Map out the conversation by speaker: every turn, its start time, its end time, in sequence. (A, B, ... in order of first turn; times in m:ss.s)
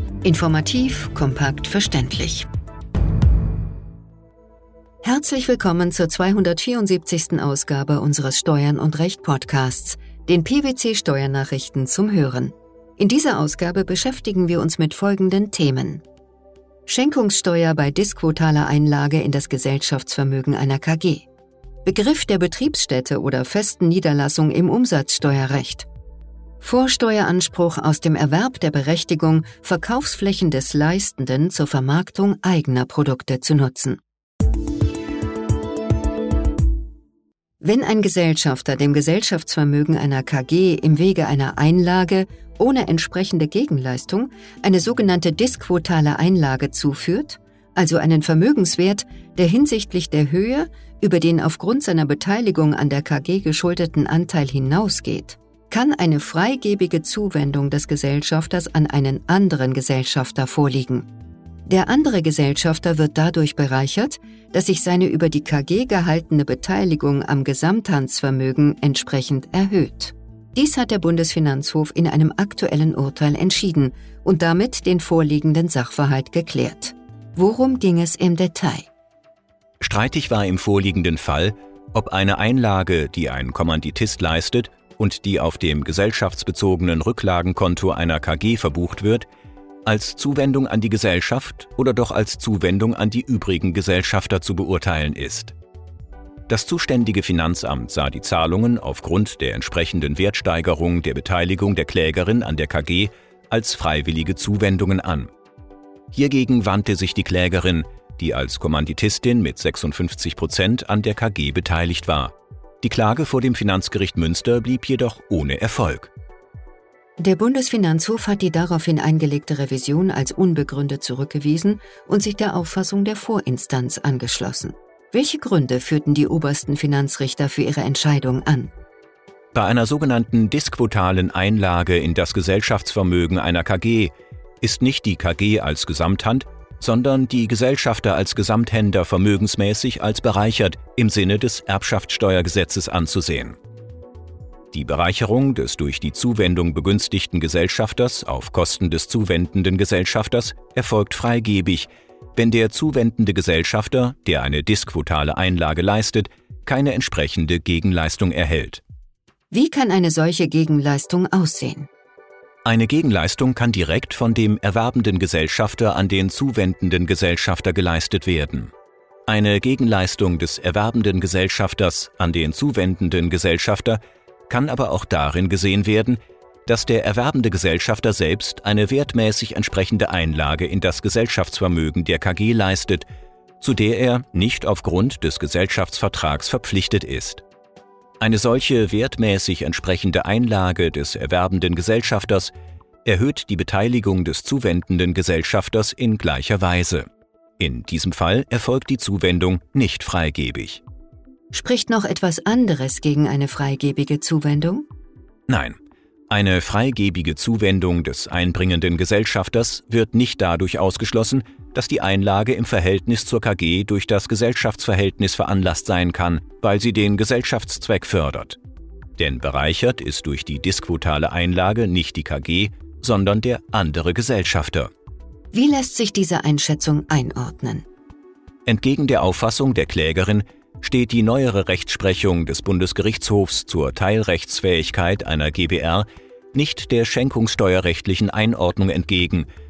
0:00.2-0:02.5 A
0:05.0-0:16.0 A
0:16.9-0:21.3 A
0:21.8-0:25.9 A
0:26.6-0:34.0 A
0:37.6-1:01.1 A
1:01.7-1:18.9 A
1:19.8-1:29.3 B
1:29.8-1:35.5 B
1:36.5-1:45.3 B
1:46.1-1:56.1 B
1:57.2-2:08.7 A
2:09.5-2:23.6 B
2:24.7-2:38.8 B
2:39.5-2:41.9 A
2:42.6-2:48.7 B
2:49.3-3:03.0 B
3:03.6-3:07.4 B
3:08.2-3:12.5 B
3:13.0-3:17.0 B
3:17.6-3:20.8 B
3:21.5-3:24.8 A
3:25.5-3:25.8 B
3:26.3-3:38.6 B
3:39.2-3:44.9 B
3:45.5-3:47.8 A
3:48.6-3:59.4 B